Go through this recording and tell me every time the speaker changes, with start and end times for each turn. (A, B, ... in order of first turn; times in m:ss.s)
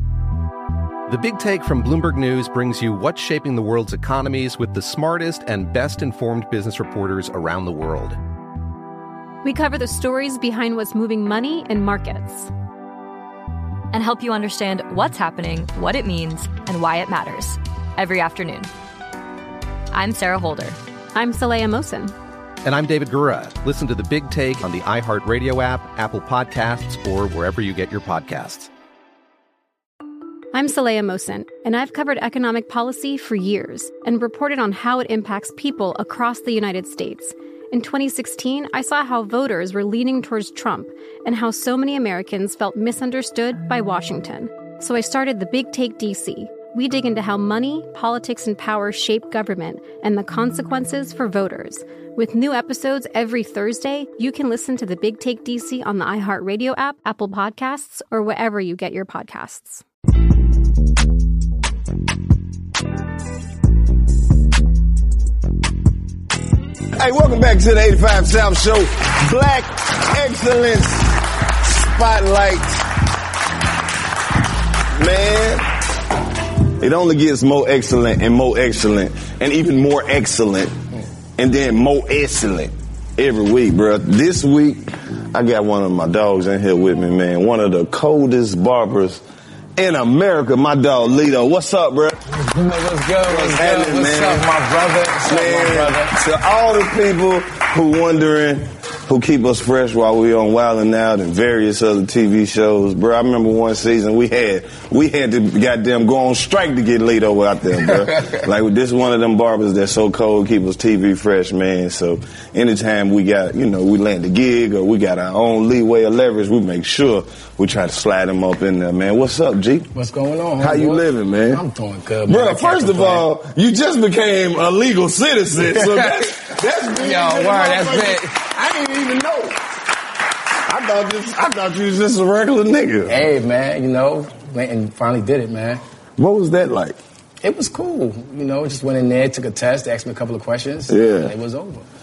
0:01.1-0:08.2 A
0:09.4-0:12.5 B
0:13.9-0:18.7 C
0:19.9-0:20.8 C
0:21.1-0:22.1 B
0:22.6-0:28.7 A
0:30.5-0:59.8 B
1:07.0-1:12.9 D
1:14.9-1:15.7 D
1:16.8-1:20.7 D
1:21.4-1:29.2 D
1:29.8-1:32.2 D
1:32.3-1:36.2 E
1:33.3-1:34.5 D
1:35.2-1:59.9 D
1:59.9-2:03.3 E
2:00.6-2:01.6 D
2:02.3-2:09.6 D
2:05.6-2:08.4 E
2:10.6-2:13.2 D
2:13.1-2:15.8 E
2:16.2-2:17.0 D
2:17.4-2:21.8 E
2:20.9-2:21.3 D